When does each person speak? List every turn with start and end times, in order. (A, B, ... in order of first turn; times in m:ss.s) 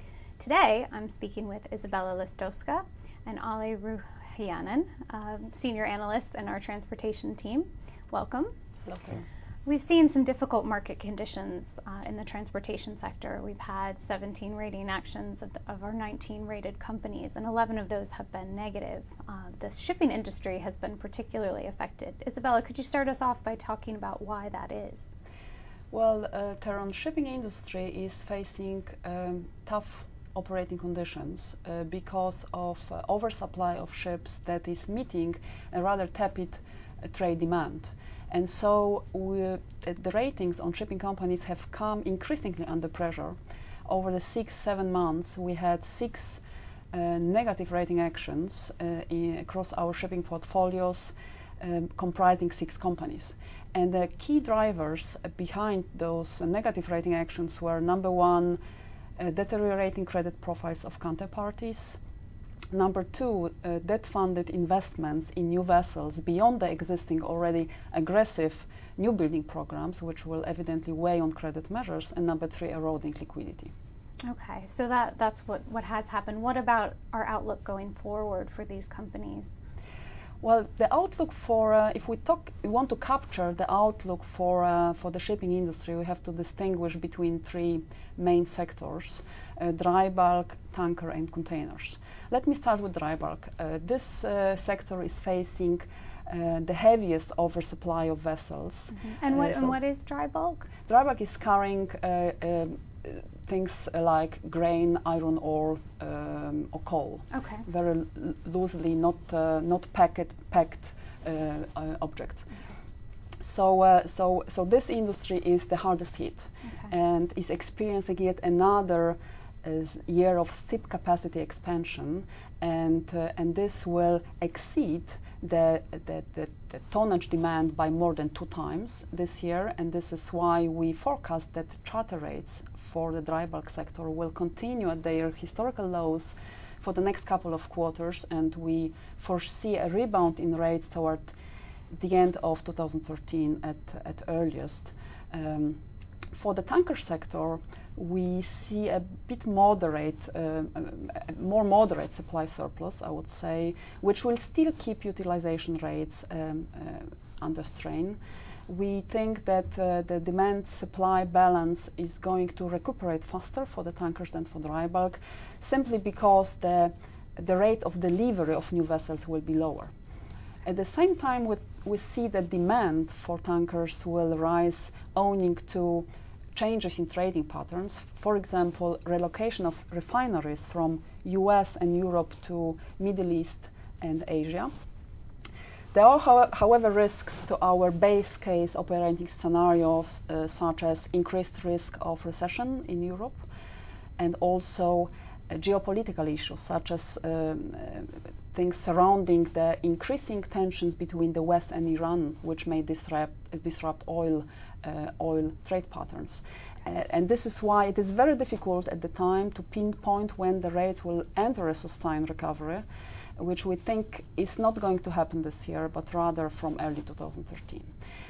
0:00.4-0:08.5 A
0:08.8-0:09.2 B
0:09.6-0:25.1 A
0:25.9-0:58.6 B
0:59.2-1:02.0 B
1:02.7-1:13.7 B
1:14.2-1:19.5 A
1:20.4-1:39.8 B
1:38.9-1:40.7 A
1:40.8-1:52.5 B
1:47.3-1:47.6 A
1:53.4-2:21.3 B
1:56.6-1:56.9 A
2:21.9-2:25.8 B
2:26.3-2:49.9 B
2:50.6-3:04.7 B
3:05.9-3:13.4 B
3:14.2-3:32.8 B
3:33.4-3:37.9 B